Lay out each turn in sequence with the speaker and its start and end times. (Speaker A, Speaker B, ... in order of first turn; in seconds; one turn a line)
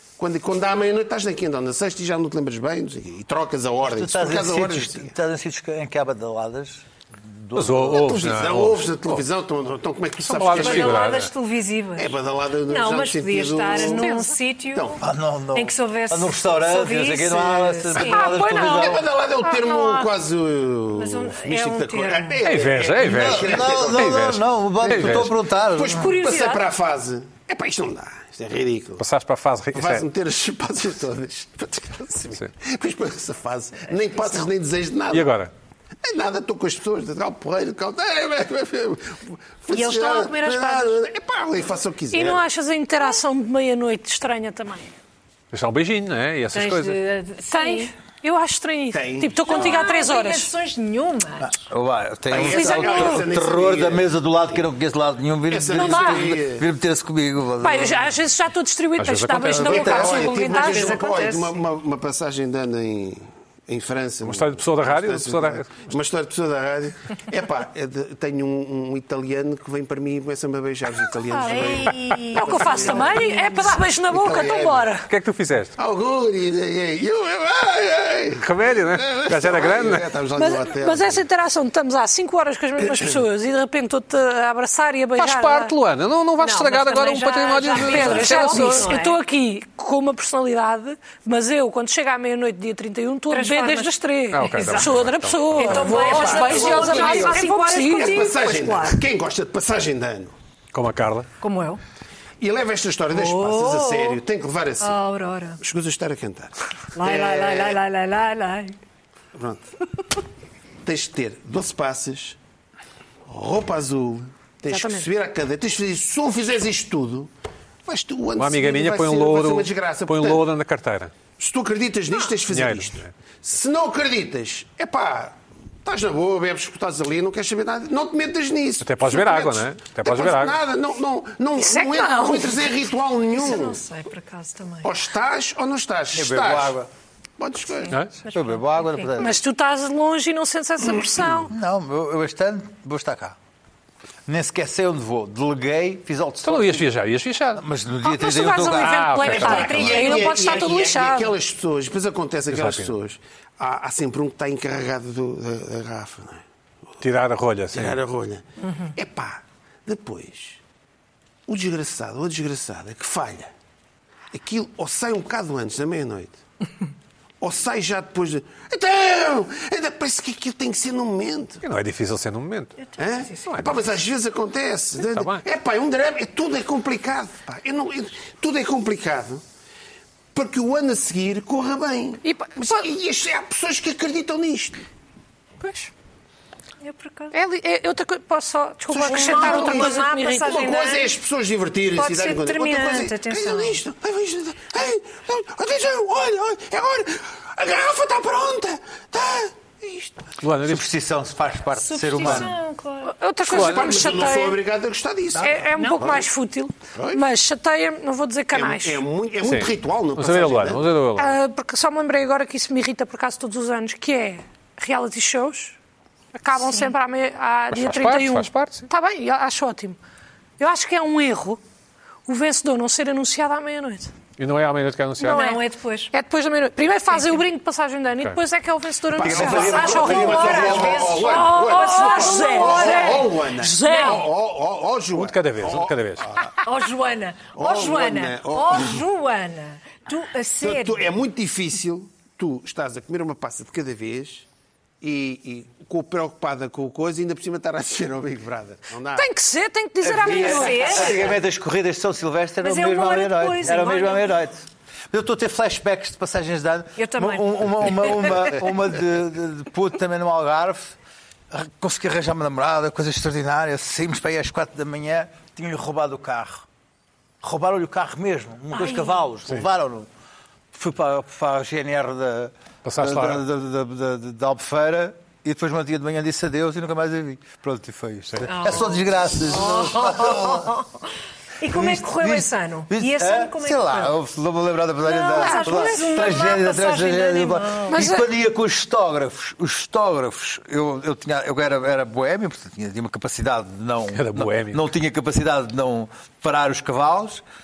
Speaker A: 0.2-5.1
Speaker B: 3.8-8.3
Speaker C: 7.5-9.2
Speaker A: 8.0-11.2
Speaker C: 10.2-11.3
Speaker D: 10.5-15.0
Speaker A: 12.0-14.1
Speaker E: 13.8-14.3
Speaker A: 14.7-15.0
Speaker B: 15.0-19.0
Speaker D: 15.5-18.3
Speaker E: 18.0-20.1
Speaker A: 18.7-29.0
Speaker D: 20.9-22.4
Speaker C: 22.4-25.3
Speaker B: 23.0-26.1
Speaker D: 25.9-26.6
Speaker C: 29.0-30.1
Speaker A: 29.7-35.3
Speaker D: 34.1-34.5
Speaker C: 35.1-35.5
Speaker A: 36.0-42.4
Speaker D: 39.7-41.0
Speaker E: 42.1-44.9
Speaker C: 45.5-47.0
Speaker D: 46.5-47.9
Speaker E: 47.5-50.5
Speaker A: 48.9-49.9
Speaker D: 49.5-51.5
Speaker B: 51.4-58.1
Speaker A: 52.3-54.1
Speaker E: 52.3-53.3
Speaker A: 55.5-56.6
Speaker E: 55.7-56.3
Speaker E: 57.6-61.0
Speaker C: 59.0-59.9
Speaker A: 59.5-73.4
Speaker B: 59.6-60.3
Speaker D: 60.4-61.6
Speaker C: 64.2-65.9
Speaker E: 71.3-75.0
Speaker D: 71.4-73.8
Speaker A: 74.1-74.9
Speaker C: 75.1-75.7
Speaker A: 75.8-81.2
Speaker C: 78.4-80.0
Speaker E: 80.3-85.7
Speaker A: 82.8-83.2
Speaker C: 85.2-88.9
Speaker D: 86.4-89.2
Speaker E: 87.5-98.2
Speaker D: 93.3-94.9
Speaker C: 94.3-95.8
Speaker D: 95.5-99.0
Speaker A: 95.8-100.3
Speaker C: 100.7-101.3
Speaker D: 101.4-101.8
Speaker A: 102.4-105.0
Speaker D: 103.1-104.2
Speaker D: 104.8-105.6
Speaker A: 105.6-107.8
Speaker D: 107.0-108.8
Speaker A: 109.3-109.6
Speaker A: 110.8-112.4
Speaker A: 113.3-117.3
Speaker E: 114.7-115.1
Speaker A: 117.8-120.4
Speaker C: 118.3-121.1
Speaker A: 121.4-133.8
Speaker C: 122.5-123.1
Speaker C: 128.8-130.6
Speaker E: 131.6-132.7
Speaker D: 133.3-134.9
Speaker A: 134.8-136.8
Speaker B: 136.1-136.9
Speaker A: 137.4-137.9
Speaker D: 138.1-139.1
Speaker B: 138.3-139.4
Speaker E: 139.2-141.5
Speaker B: 141.5-143.4
Speaker B: 144.2-146.9
Speaker C: 146.4-147.6
Speaker B: 147.6-150.1
Speaker E: 148.0-151.3
Speaker C: 148.8-149.8
Speaker A: 149.3-156.4
Speaker D: 149.4-150.6
Speaker C: 152.5-152.9
Speaker C: 157.0-158.0
Speaker A: 157.7-160.6
Speaker A: 161.5-163.5
Speaker A: 164.3-166.4
Speaker A: 167.4-171.6
Speaker C: 171.6-172.8
Speaker D: 172.8-173.5
Speaker A: 173.0-179.4
Speaker C: 175.0-175.4
Speaker A: 180.3-184.8
Speaker E: 182.2-182.8
Speaker E: 185.6-185.9
Speaker D: 186.8-187.3
Speaker E: 187.3-190.7
Speaker A: 188.9-200.2
Speaker D: 189.0-191.1
Speaker D: 191.9-193.8
Speaker C: 200.4-200.8
Speaker B: 200.6-202.5
Speaker D: 201.7-203.1
Speaker E: 203.0-204.6
Speaker A: 203.4-206.2
Speaker C: 203.5-203.9
Speaker E: 205.4-209.0
Speaker D: 205.8-206.0
Speaker A: 206.9-207.2
Speaker A: 208.5-210.8
Speaker C: 209.4-211.4
Speaker E: 211.2-215.8
Speaker E: 216.3-220.0
Speaker C: 217.7-218.9
Speaker E: 220.6-221.6
Speaker E: 222.2-224.1
Speaker C: 224.4-225.5
Speaker D: 225.2-226.1
Speaker E: 225.2-234.3
Speaker A: 229.1-236.6
Speaker B: 229.2-231.1
Speaker D: 229.6-234.2
Speaker C: 235.1-236.3
Speaker D: 236.6-241.1
Speaker A: 237.5-239.0
Speaker A: 240.6-244.4
Speaker A: 245.0-249.3
Speaker E: 249.1-251.2
Speaker B: 250.0-260.9
Speaker D: 250.3-251.2
Speaker D: 252.6-254.4
Speaker D: 257.0-258.5
Speaker B: 261.5-266.6
Speaker B: 267.4-270.1
Speaker D: 268.7-269.2
Speaker B: 270.7-280.8
Speaker C: 272.8-273.4
Speaker D: 278.5-280.9
Speaker D: 281.6-284.1
Speaker B: 281.6-297.4
Speaker D: 285.0-288.0
Speaker E: 285.1-286.1
Speaker E: 287.9-288.2
Speaker C: 294.1-294.9